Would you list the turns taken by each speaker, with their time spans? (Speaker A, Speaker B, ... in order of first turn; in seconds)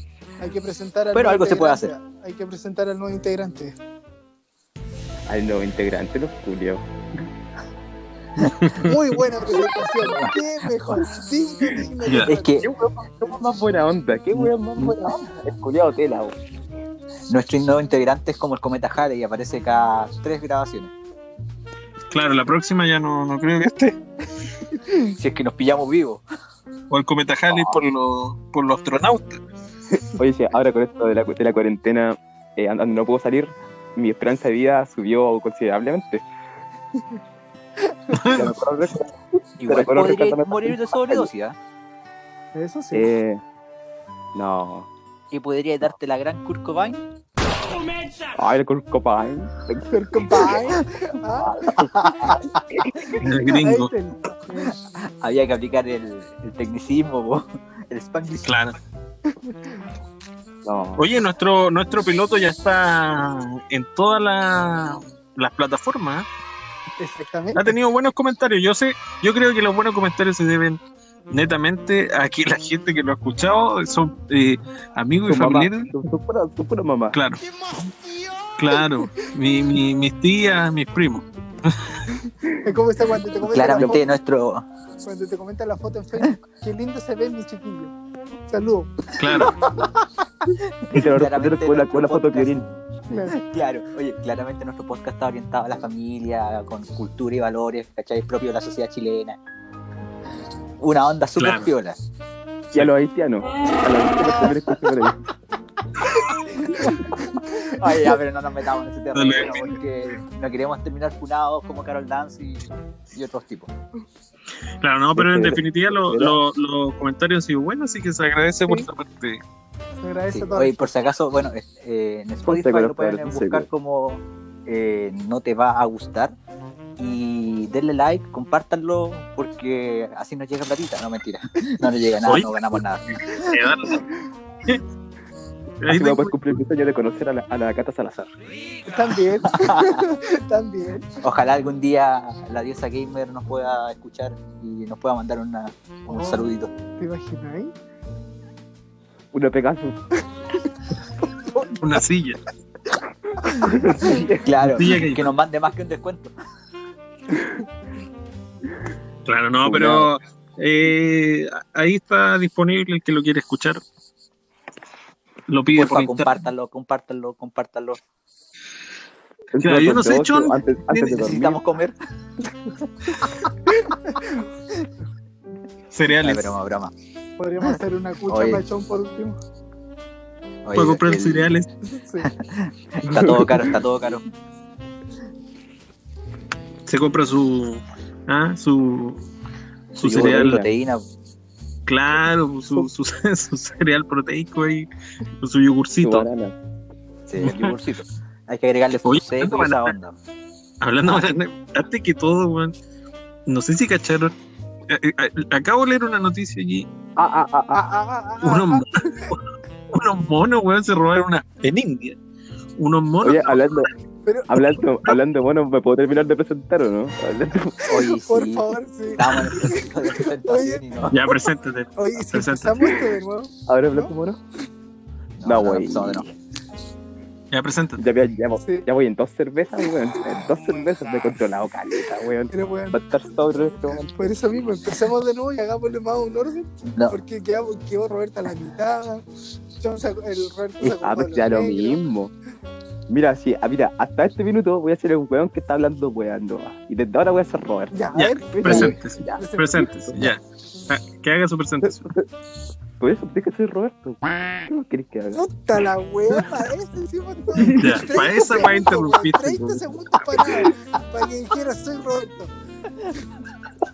Speaker A: 0.4-3.8, 8.8-12.6, 42.5-43.1, 49.9-52.4, 52.9-54.8, 59.5-59.7, 67.0-67.7, 82.6-84.0, 85.0-87.9, 88.5-89.9, 93.1-93.4, 106.6-107.1, 120.0-120.9, 138.8-141.1, 146.1-147.7, 157.3-157.6, 177.4-179.4, 181.9-182.3, 207.7-209.3, 214.2-214.7, 217.9-224.1, 232.5-233.0, 234.2-239.2, 239.8-242.0, 247.9-249.8, 255.3-262.5
Speaker B: 1.1-1.9, 10.0-11.1, 12.2-12.7, 14.8-15.2, 17.3-20.9, 25.0-26.2, 27.5-27.8, 39.6-41.6, 45.3-47.1, 52.0-52.4, 55.1-58.5, 83.4-84.7, 90.6-92.7, 93.2-99.4, 100.8-102.0, 107.4-113.7, 120.3-126.3, 127.0-133.5, 139.5-140.0, 141.2-146.7, 153.6-156.3, 165.8-168.0, 171.0-171.9, 176.2-176.9, 178.3-178.6, 180.7-181.5, 182.2-184.2, 190.0-191.0, 197.3-200.2, 217.8-221.2, 225.4-226.3, 236.8-237.2
Speaker C: 5.3-6.9, 12.6-16.3, 29.9-36.2, 38.3-39.1, 39.7-41.3, 42.9-43.4, 44.4-44.9, 48.4-50.6, 51.3-53.1, 60.6-61.0, 75.3-77.2, 82.4-82.8, 83.6-84.0, 90.9-92.7, 102.7-105.3, 115.2-116.4, 122.5-123.7, 135.9-138.3, 149.3-150.0, 153.6-154.7, 159.6-160.1, 169.6-171.6, 183.0-183.8, 190.1-190.7, 196.0-196.5, 207.2-207.8, 213.2-213.9, 214.5-217.8, 223.7-224.4, 225.4-226.3, 228.0-234.3, 241.0-242.3, 243.1-248.1, 248.7-250.3, 251.8-252.2, 253.0-255.4, 257.6-258.0
Speaker D: 8.5-8.9, 12.0-12.3, 22.1-24.0, 26.9-29.4, 38.1-38.5, 53.2-53.9, 58.5-58.8, 61.0-66.3, 67.5-76.0, 77.1-77.4, 78.6-82.0, 89.2-89.5, 101.4-101.7, 106.0-106.4, 109.2-109.8, 114.8-119.4, 132.3-132.6, 133.1-134.1, 135.8-136.5, 151.8-152.4, 154.8-155.3, 159.3-163.8, 165.5-166.3, 169.6-171.3, 175.9-176.5, 180.8-181.7, 186.9-189.2, 190.0-190.7, 191.9-194.9, 195.4-196.3, 197.4-197.7, 199.1-199.9, 200.8-202.7, 203.5-204.3, 204.9-206.9, 208.4-212.2, 212.8-213.9, 221.1-223.1, 227.5-228.0, 248.1-252.1, 257.8-260.6